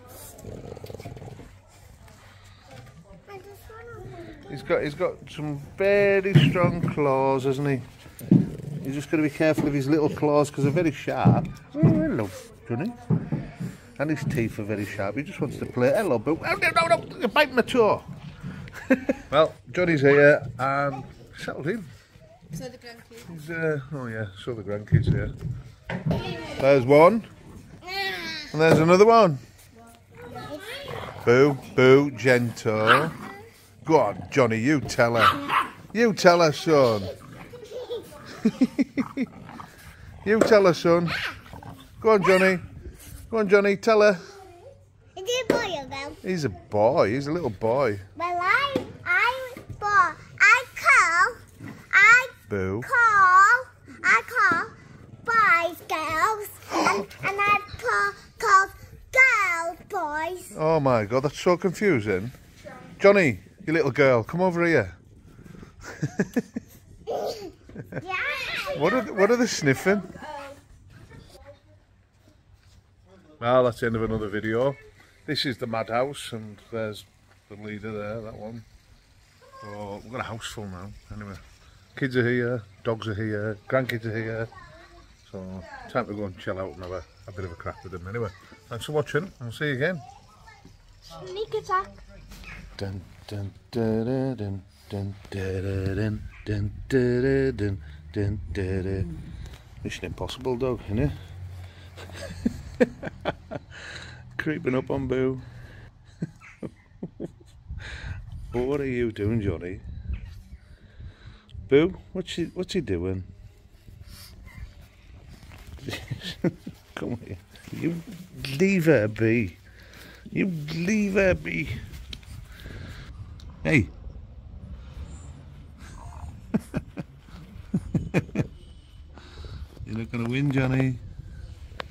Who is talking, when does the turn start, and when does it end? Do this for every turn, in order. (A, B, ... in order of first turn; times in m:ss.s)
0:03.3-0:04.3 A
0:04.4-0:07.9 B
0:08.8-0:13.0 B
0:14.0-0:18.1 B
0:18.8-0:21.9 B
0:23.1-0:25.3 B
0:26.4-0:27.3 B
0:28.5-0:29.4 B
0:30.3-0:30.7 A
0:31.2-0:33.2 B
0:33.8-0:37.2 B
0:37.7-0:38.0 A
0:38.3-0:39.3 B
0:40.2-0:41.3 B
0:42.0-0:42.7 B
0:43.3-0:44.4 B
0:45.2-0:46.2 A
0:46.2-0:48.1 B
0:48.2-1:00.5 A
0:52.5-0:52.9 B
0:56.7-0:57.1 B
1:00.5-1:02.4 B
1:02.9-1:05.0 B
1:05.9-1:06.5 B
1:07.2-1:07.4 A
1:08.0-1:09.2 A
1:08.7-1:10.2 B
1:13.4-1:18.6 B
1:19.6-1:21.4 B
1:21.9-1:24.5 B
1:25.2-1:30.0 B
1:31.1-1:31.9 A
1:32.8-1:39.2 B
1:39.8-1:41.2 B
1:42.0-1:43.8 B
1:44.3-1:45.5 B
1:47.8-1:49.8 B
1:51.7-1:53.3 B
1:55.8-1:59.6 B
2:00.3-2:01.8 B
2:03.6-2:03.9 B
2:07.9-2:08.4 B
2:09.8-2:11.0 B